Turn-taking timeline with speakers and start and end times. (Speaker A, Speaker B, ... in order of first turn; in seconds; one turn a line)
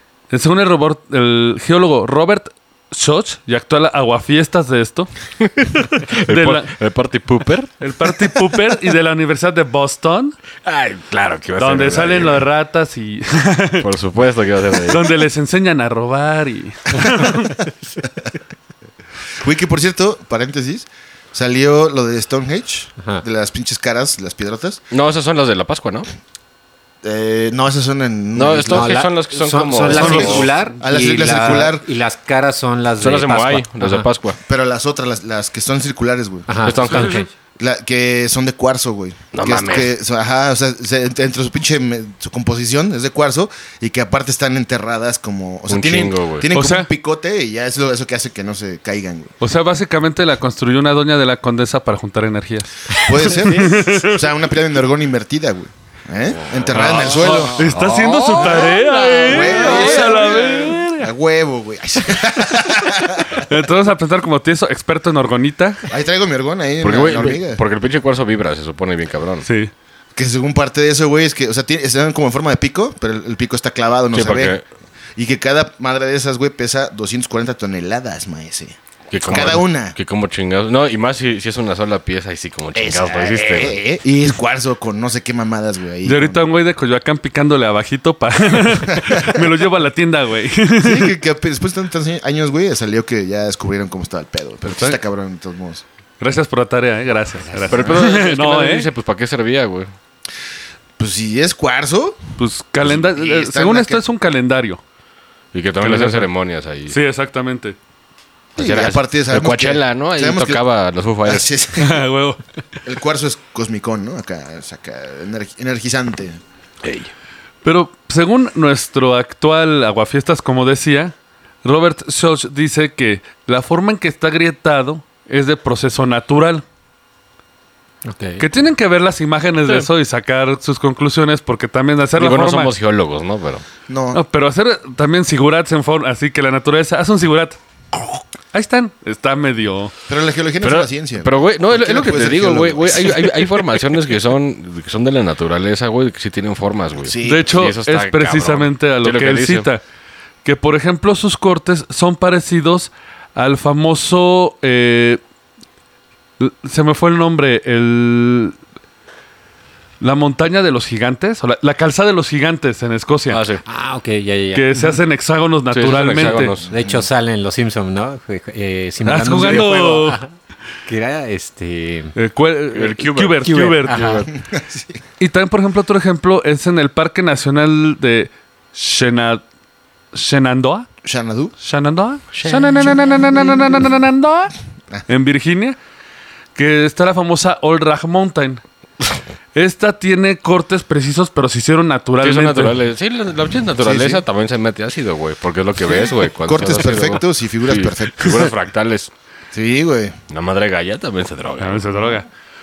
Speaker A: 0.3-5.1
Speaker B: 5.4-8.3
Speaker A: 6.3-6.7
Speaker A: 7.8-10.3
Speaker B: 10.6-12.4
Speaker A: 11.6-13.9
Speaker B: 13.8-15.1
Speaker A: 14.9-17.6
Speaker C: 19.4-24.8
Speaker B: 24.9-26.1
Speaker C: 27.0-29.1
Speaker B: 28.3-30.5
Speaker D: 28.7-34.1
Speaker C: 29.9-31.9
Speaker B: 33.0-34.4
Speaker C: 34.5-49.3
Speaker D: 36.5-37.3
Speaker B: 36.6-37.3
Speaker B: 39.3-39.9
Speaker B: 45.7-46.5
Speaker A: 46.5-46.9
Speaker A: 49.4-54.1
Speaker C: 53.0-63.5
Speaker B: 56.5-60.3
Speaker A: 56.9-61.1
Speaker A: 63.3-65.8
Speaker C: 65.9-67.6
Speaker B: 66.8-69.5
Speaker A: 69.5-69.7
Speaker C: 70.1-74.6
Speaker B: 74.1-74.6
Speaker C: 75.2-80.0
Speaker B: 79.1-83.8
Speaker C: 82.8-86.4
Speaker A: 86.0-91.1
Speaker C: 89.0-89.4
Speaker C: 90.8-95.8
Speaker A: 94.6-95.0
Speaker A: 96.2-98.9
Speaker B: 97.7-99.9
Speaker C: 97.7-98.0
Speaker C: 101.0-102.2
Speaker A: 102.4-104.8
Speaker C: 102.8-104.0
Speaker B: 105.5-107.0
Speaker A: 105.8-106.3
Speaker A: 106.9-107.8
Speaker C: 108.6-110.6
Speaker B: 108.6-111.5
Speaker C: 111.2-112.0
Speaker A: 111.8-112.4
Speaker C: 112.8-116.4
Speaker B: 116.8-117.1
Speaker A: 117.6-126.6
Speaker D: 128.1-128.4
Speaker A: 128.4-132.7
Speaker B: 132.2-133.6
Speaker C: 133.9-134.2
Speaker A: 134.1-139.9
Speaker C: 140.1-143.6
Speaker B: 140.6-149.7
Speaker C: 147.0-147.6
Speaker A: 147.2-149.8
Speaker A: 150.4-155.2
Speaker A: 156.4-158.6
Speaker A: 160.0-163.4
Speaker B: 163.3-163.6
Speaker D: 163.6-165.0
Speaker A: 164.5-166.6
Speaker B: 165.7-166.7
Speaker C: 166.6-167.1
Speaker D: 166.7-170.3
Speaker A: 169.0-170.2
Speaker B: 169.4-169.7
Speaker D: 170.9-172.1
Speaker A: 172.1-174.3
Speaker B: 172.7-173.6
Speaker D: 173.4-174.3
Speaker C: 174.3-175.0
Speaker A: 175.2-179.4
Speaker A: 180.1-180.9
Speaker C: 181.0-181.6
Speaker A: 181.6-184.5
Speaker B: 182.3-182.9
Speaker C: 182.8-183.5
Speaker A: 185.1-185.8
Speaker A: 186.6-188.6
Speaker A: 189.6-192.8
Speaker B: 192.2-199.1
Speaker C: 193.8-194.2
Speaker C: 196.1-198.5
Speaker C: 199.5-200.2
Speaker B: 200.3-201.8
Speaker A: 201.6-202.3